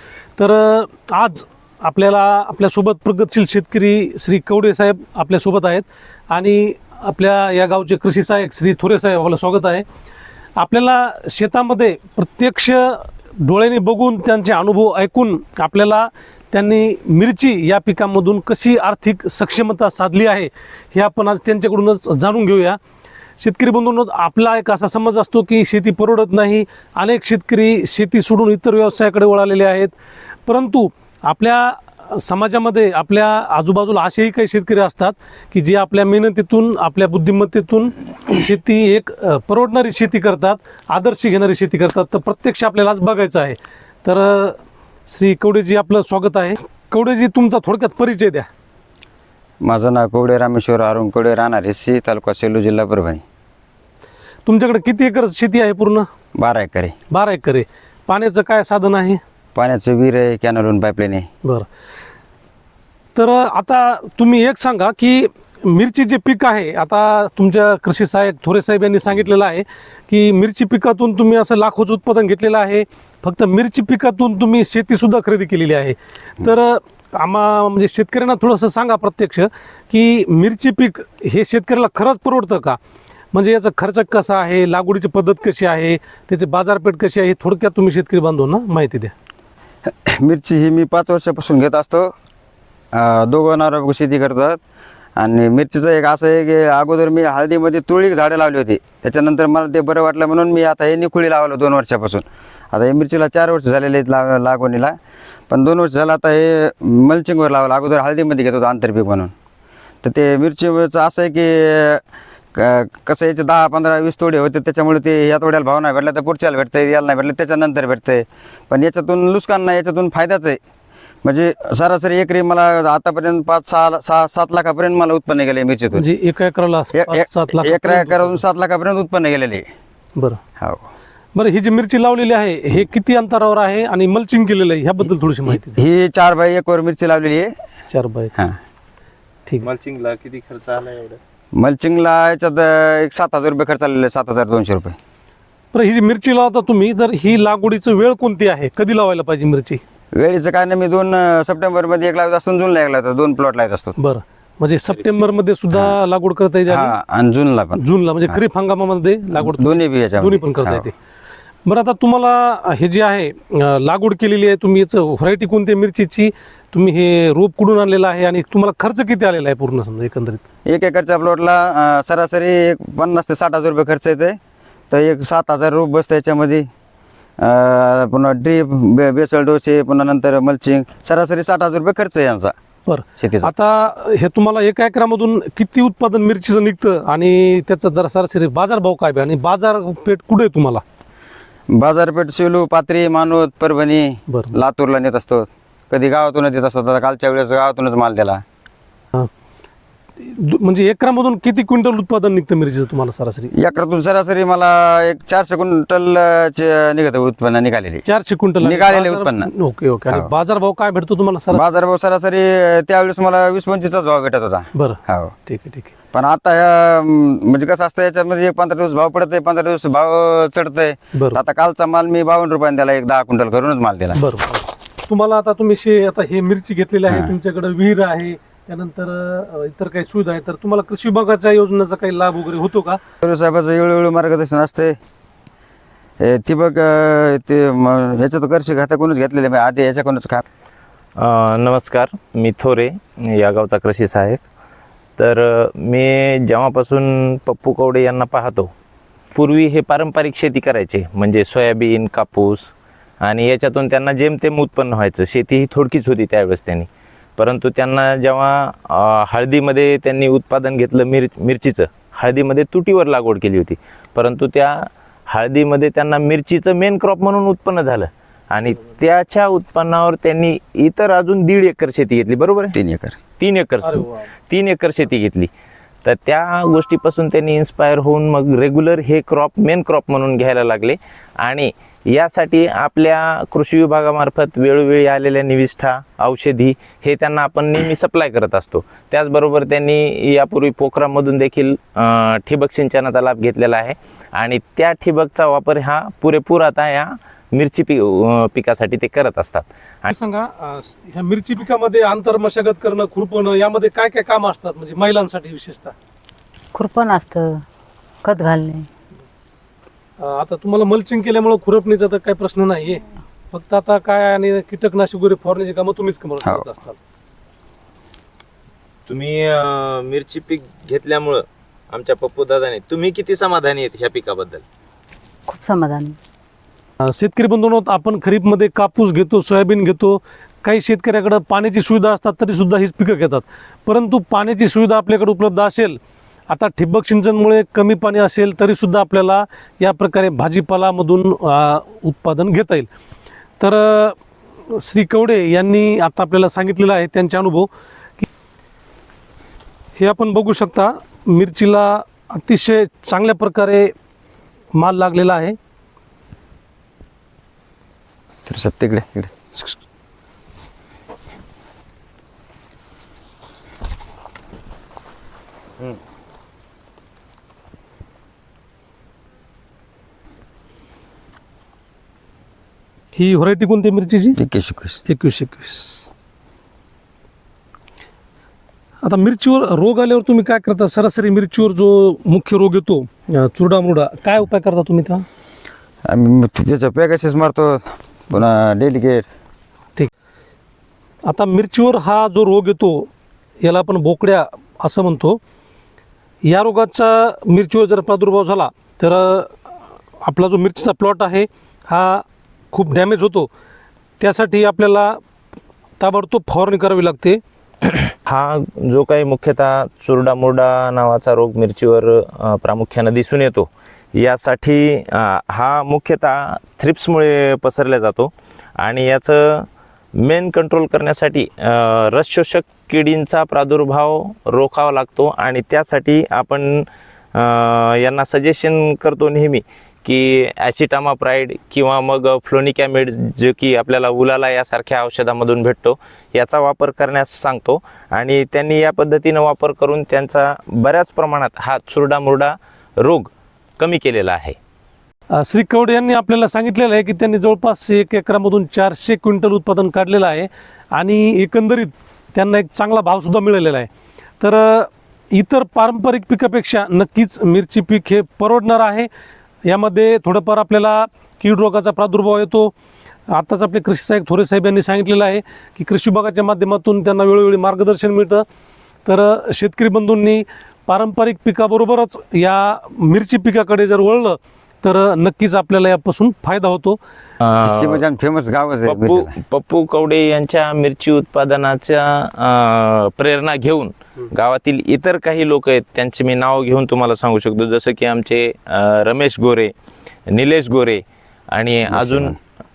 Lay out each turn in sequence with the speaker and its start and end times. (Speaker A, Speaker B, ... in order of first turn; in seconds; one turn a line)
Speaker A: 0.4-9.8
Speaker A: 10.6-22.8
Speaker A: 23.4-29.9
Speaker A: 30.4-48.5
Speaker B: 49.6-53.2
Speaker A: 54.5-56.0
Speaker B: 56.4-56.9
Speaker A: 57.1-59.2
Speaker B: 59.5-61.3
Speaker A: 63.1-82.8
Speaker A: 83.3-89.1
Speaker B: 89.9-92.1
Speaker B: 92.9-94.6
Speaker B: 95.2-105.0
Speaker B: 105.5-109.3
Speaker B: 110.0-112.0
Speaker B: 112.5-120.6
Speaker B: 121.2-126.0
Speaker A: 125.9-128.4
Speaker B: 126.9-129.7
Speaker B: 130.6-130.8
Speaker A: 131.3-135.8
Speaker B: 135.7-137.5
Speaker A: 137.9-138.3
Speaker C: 139.6-141.2
Speaker B: 141.5-144.9
Speaker A: 145.7-149.8
Speaker B: 150.1-153.9
Speaker A: 154.0-156.9
Speaker B: 156.7-158.4
Speaker A: 157.8-160.9
Speaker B: 159.3-160.9
Speaker A: 161.6-170.4
Speaker B: 170.7-174.4
Speaker B: 174.9-176.7
Speaker B: 177.4-182.5
Speaker A: 182.8-190.8
Speaker B: 183.2-183.5
Speaker B: 191.7-198.4
Speaker A: 194.3-194.6
Speaker A: 200.2-203.5
Speaker B: 203.6-208.0
Speaker A: 208.0-211.6
Speaker B: 208.6-209.5
Speaker B: 211.5-215.3
Speaker A: 214.7-215.9
Speaker B: 216.1-224.2
Speaker A: 221.1-221.4
Speaker A: 224.1-233.0
Speaker B: 227.1-227.3
Speaker B: 233.2-234.9
Speaker B: 236.2-240.4
Speaker C: 241.2-244.4
Speaker C: 245.2-248.7
Speaker C: 249.3-272.8
Speaker B: 272.7-273.2
Speaker C: 273.4-275.5
Speaker A: 273.8-274.2
Speaker C: 276.0-300.1
Speaker A: 300.1-305.9
Speaker D: 306.7-307.6
Speaker D: 308.2-308.9
Speaker A: 310.2-317.0
Speaker C: 319.1-324.6
Speaker D: 325.5-326.2
Speaker A: 327.0-342.9
Speaker A: 343.6-344.2
Speaker A: 344.7-348.2
Speaker A: 350.0-353.9
Speaker A: 354.7-355.6
Speaker B: 358.4-359.7
Speaker A: 373.1-374.4
Speaker B: 374.4-375.0
Speaker A: 375.1-376.1
Speaker A: 379.0-385.2
Speaker B: 386.1-389.2
Speaker A: 391.2-393.1
Speaker A: 393.6-395.4
Speaker A: 396.4-399.5
Speaker A: 400.2-403.5
Speaker A: 404.2-405.2
Speaker A: 406.0-407.4
Speaker C: 408.2-419.7
Speaker C: 420.2-444.6
Speaker A: 445.3-453.9
Speaker A: 454.4-459.1
Speaker A: 459.6-462.7
Speaker A: 463.3-468.4
Speaker A: 469.1-477.0
Speaker C: 477.4-478.0
Speaker B: 477.6-479.3
Speaker C: 478.9-489.7
Speaker C: 490.3-492.4
Speaker B: 491.9-492.4